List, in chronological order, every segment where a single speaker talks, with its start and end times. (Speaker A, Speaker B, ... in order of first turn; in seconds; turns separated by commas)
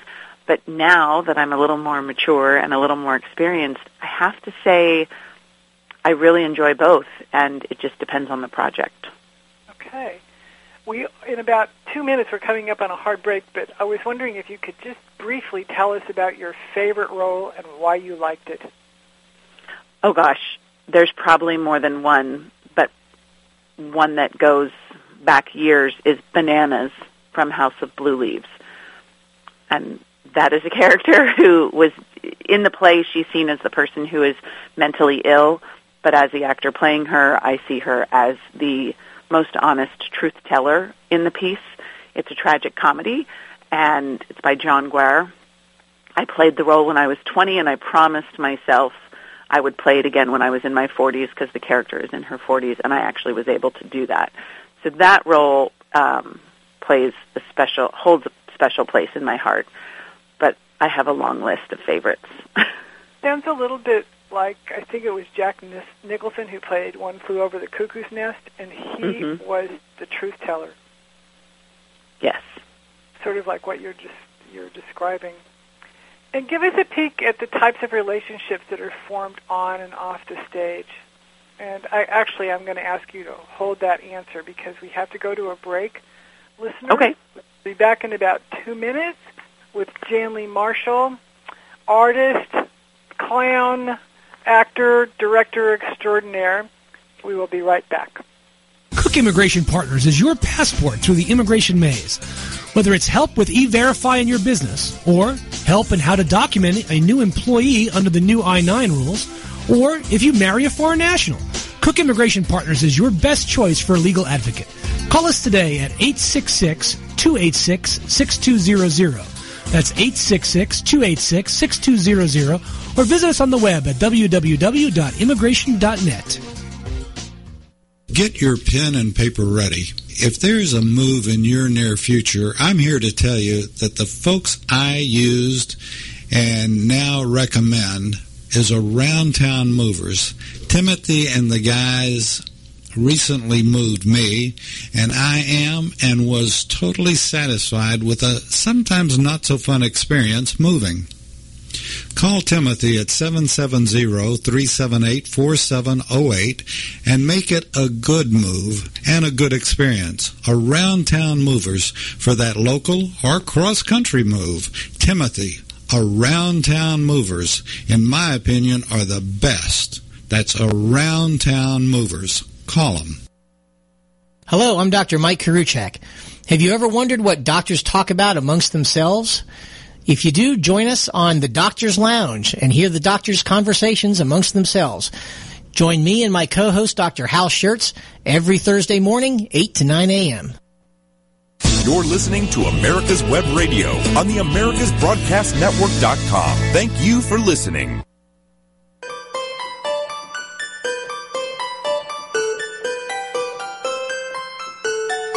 Speaker A: 0.5-5.1, Speaker A: 6.0-9.1, Speaker B: 9.7-10.2, Speaker B: 10.8-18.7, Speaker A: 20.0-22.9, Speaker A: 23.8-28.5, Speaker A: 29.7-45.3, Speaker A: 46.2-59.7, Speaker A: 60.4-62.7, Speaker B: 63.2-70.7, Speaker A: 69.0-69.4, Speaker A: 72.2-72.6, Speaker B: 73.2-75.4, Speaker B: 76.3-80.9, Speaker B: 81.6-86.0, Speaker B: 86.6-89.2, Speaker A: 86.9-87.1, Speaker B: 89.7-91.2, Speaker B: 91.9-92.7, Speaker B: 93.2-96.7, Speaker B: 97.2-98.2, Speaker C: 98.9-126.4, Speaker D: 128.1-135.8, Speaker D: 136.3-142.4, Speaker D: 142.9-151.1, Speaker D: 152.1-173.2, Speaker E: 174.5-179.4, Speaker E: 180.1-185.1, Speaker E: 185.7-190.6, Speaker F: 191.8-198.0